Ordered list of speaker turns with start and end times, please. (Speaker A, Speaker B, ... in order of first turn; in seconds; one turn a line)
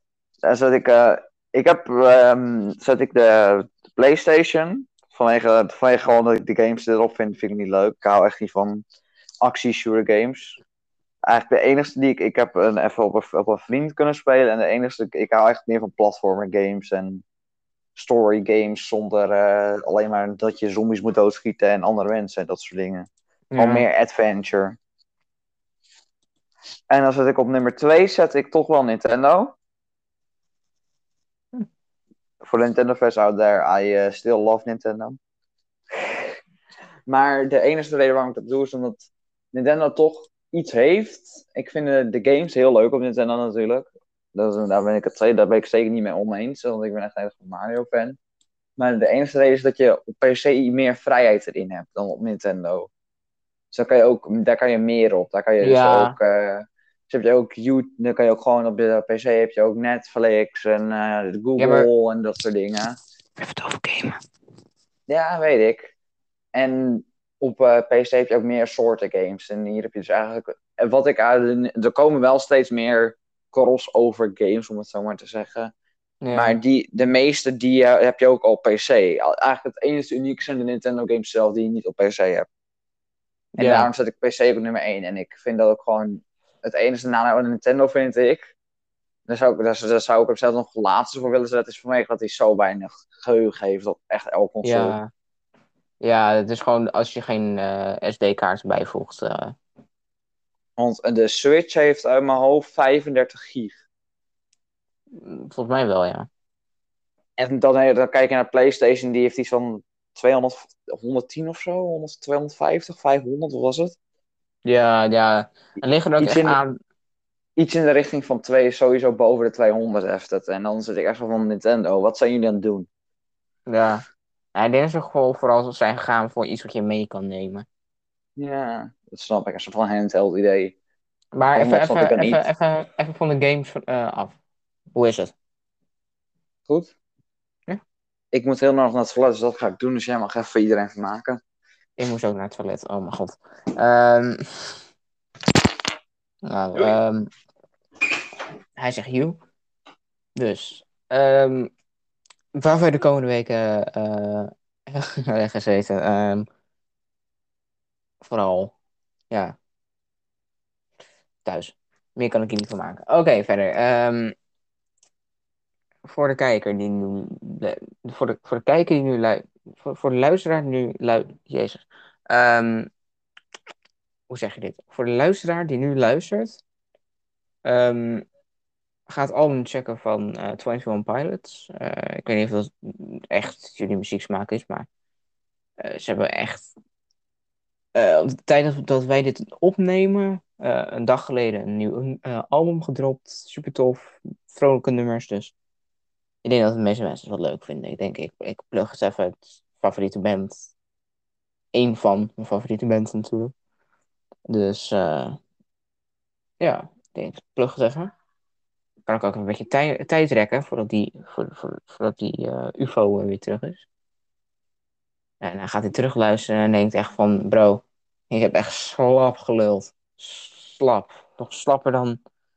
Speaker A: 0.4-8.8
Speaker A: 9.4-10.6
Speaker A: 11.3-17.2
Speaker A: 18.0-24.8
Speaker B: 23.5-23.9
Speaker A: 26.9-29.6
Speaker A: 32.4-35.2
Speaker A: 36.0-36.3
Speaker A: 37.1-48.2
Speaker A: 48.8-52.9
Speaker A: 53.7-63.0
Speaker B: 55.6-56.1
Speaker B: 61.6-61.9
Speaker B: 63.4-64.2
Speaker A: 65.1-65.9
Speaker A: 66.5-75.7
Speaker B: 76.2-76.6
Speaker A: 76.3-82.5
Speaker B: 83.6-83.9
Speaker A: 83.6-88.5
Speaker A: 89.3-95.0
Speaker B: 94.6-95.1
Speaker B: 96.0-99.5
Speaker A: 100.8-103.8
Speaker B: 105.1-106.3
Speaker A: 107.4-114.0
Speaker B: 114.7-116.8
Speaker A: 116.2-116.6
Speaker A: 117.6-122.9
Speaker B: 123.7-124.0
Speaker B: 124.5-127.7
Speaker A: 128.4-130.8
Speaker B: 131.3-134.4
Speaker A: 131.6-132.4
Speaker B: 134.9-135.3
Speaker A: 138.3-141.4
Speaker B: 142.0-144.8
Speaker B: 146.4-147.3
Speaker B: 148.8-149.4
Speaker B: 150.4-151.7
Speaker B: 152.6-156.5
Speaker B: 158.2-158.7
Speaker B: 161.4-164.3
Speaker B: 166.1-172.9
Speaker B: 174.3-176.6
Speaker B: 177.7-178.3
Speaker B: 179.1-184.9
Speaker B: 185.8-186.7
Speaker B: 187.9-195.5
Speaker B: 196.4-200.7
Speaker B: 201.7-203.5
Speaker B: 204.5-205.4
Speaker B: 206.6-208.1
Speaker B: 209.1-213.9
Speaker B: 215.4-222.2